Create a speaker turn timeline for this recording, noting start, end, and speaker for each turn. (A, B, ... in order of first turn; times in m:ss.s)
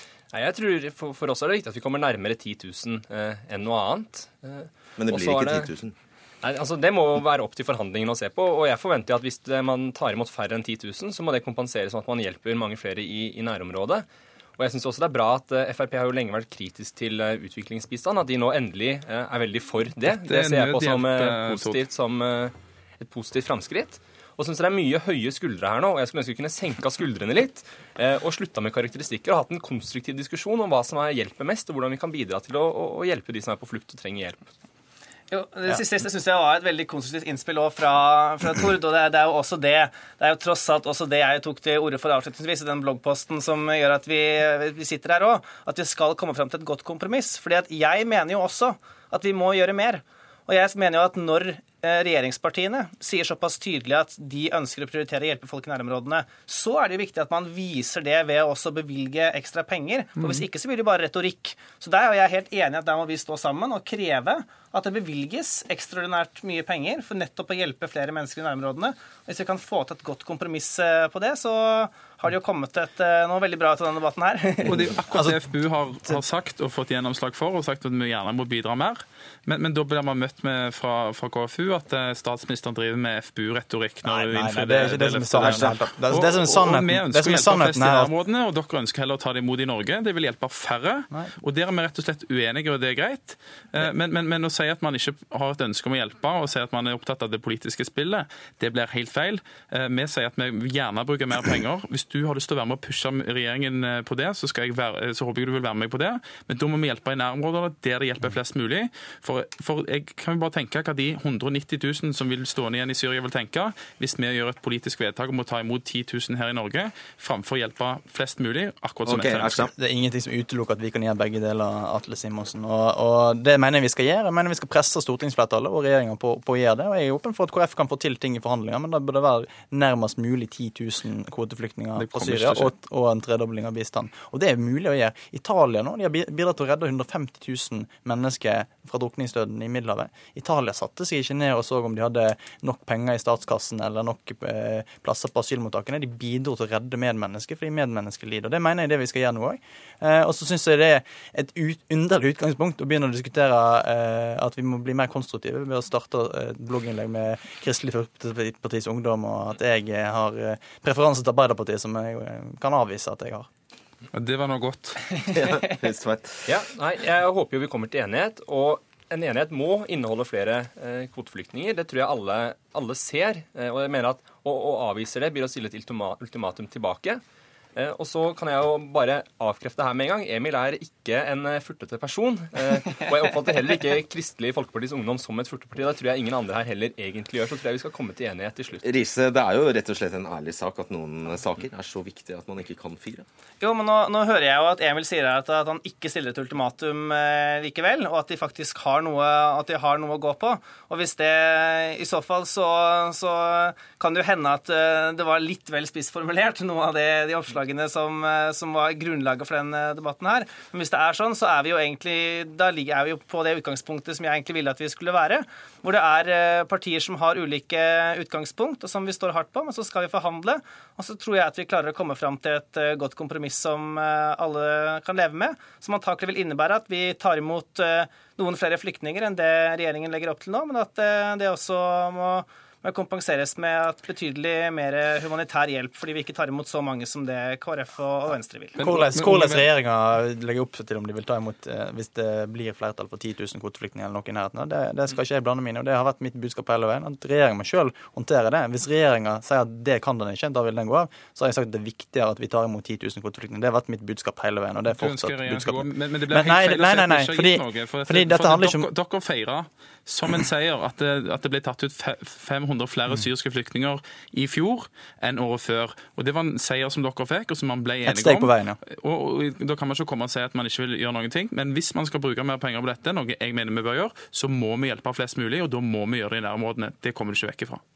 0:00.3-0:05.7 A
0:05.0-0:05.9 B
0:06.4-0:14.1 A
0:14.6-0:34.4 A
0:20.1-0:21.8 C
0:35.3-1:14.9 D
1:14.6-1:59.6 C
1:14.9-1:15.5 E
1:24.0-1:28.1 E
1:59.1-1:59.7 B
1:59.7-2:43.5 E
2:12.0-2:12.7 C
2:44.1-2:45.2 C
2:45.3-2:46.5 B
2:46.5-2:57.2 A
2:57.8-3:08.9 A
3:08.8-3:13.3 B
3:13.6-3:58.8 D
3:58.8-3:59.7 C
3:58.8-4:18.9 E
4:14.9-4:37.8 C
4:28.0-4:28.8 E